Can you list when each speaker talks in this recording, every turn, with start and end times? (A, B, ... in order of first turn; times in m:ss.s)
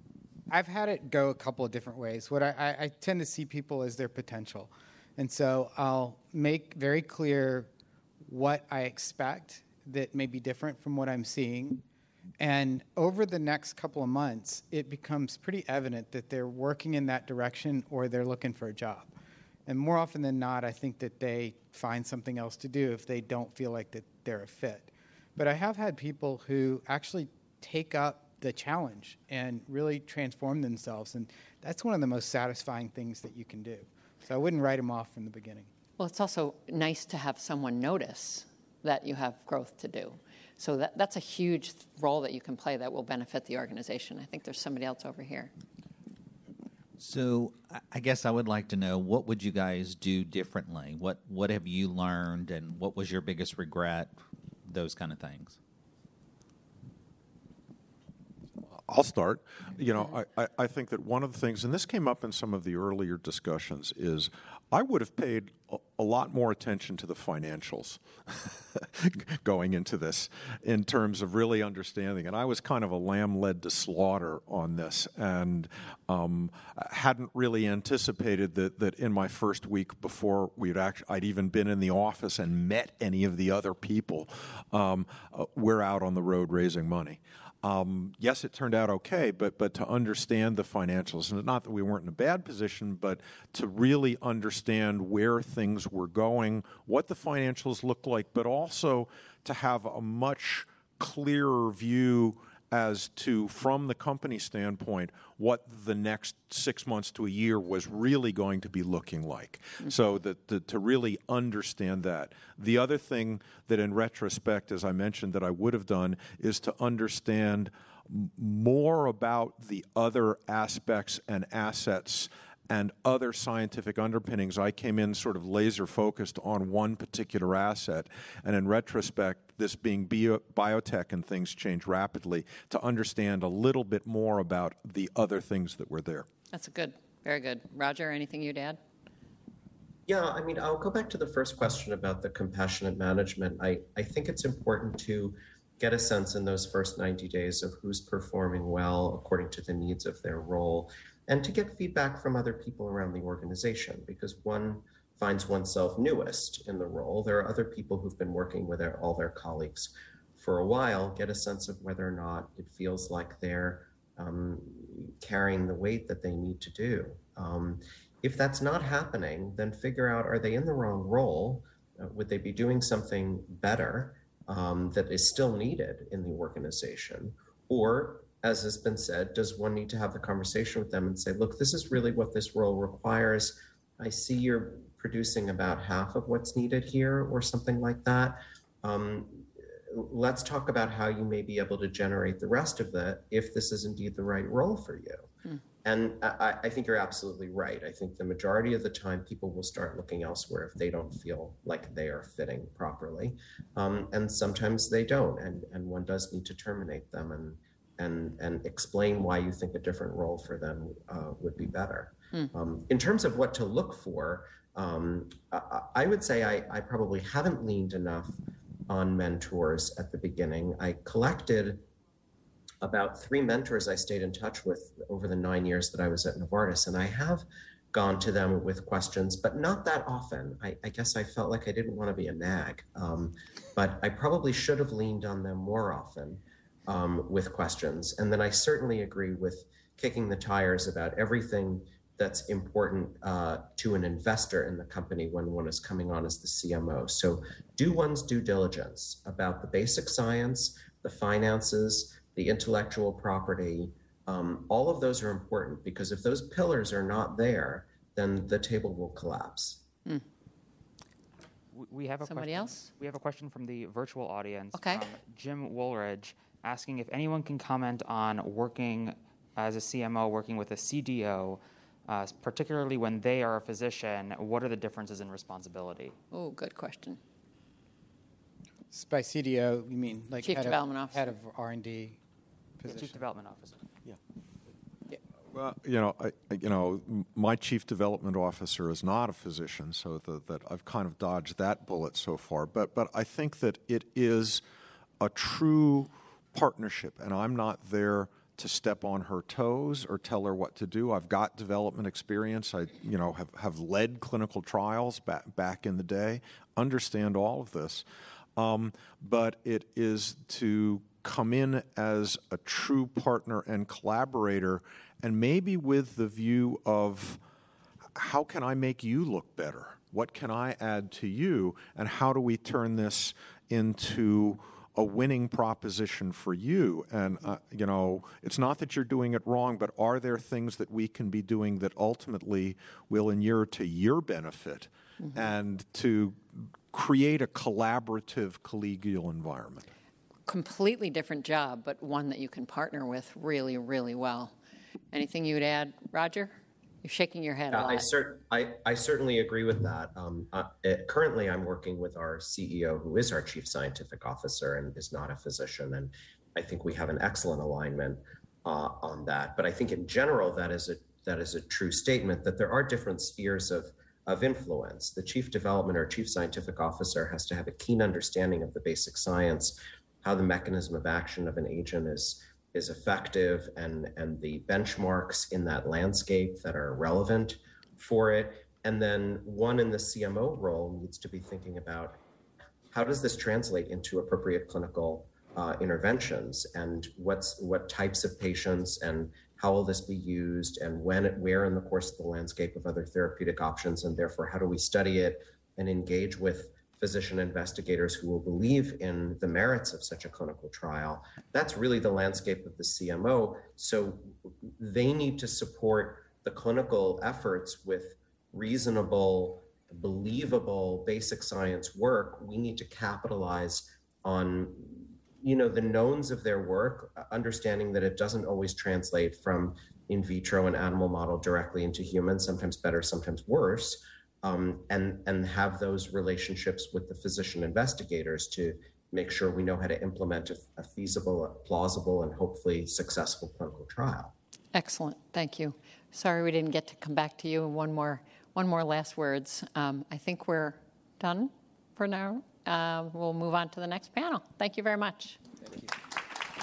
0:00.5-0:07.7 A
0:08.2-0:11.8 A
0:12.4-0:19.1 A
0:19.7-0:35.7 A
0:36.0-0:45.5 B
0:47.0-0:55.6 C
0:58.7-2:16.3 D
2:16.5-2:18.8 B
2:20.1-3:15.3 E
3:15.8-3:38.4 E
3:38.9-3:41.9 E
3:42.8-4:19.8 E
4:21.7-4:36.2 F
4:22.2-4:22.9 B
4:24.7-4:25.1 B
4:36.3-4:37.2 B
4:38.9-4:42.2 A
4:40.4-4:41.3 B
4:42.8-4:43.2 A
4:42.9-4:43.8 F
4:45.5-4:54.6 D
4:55.2-5:08.0 D
5:08.6-5:17.4 D
5:18.1-5:39.9 D
5:40.5-5:44.6 B
5:45.1-5:48.1 B
5:47.7-6:22.2 E
6:22.9-7:14.3 E
7:14.7-7:25.4 B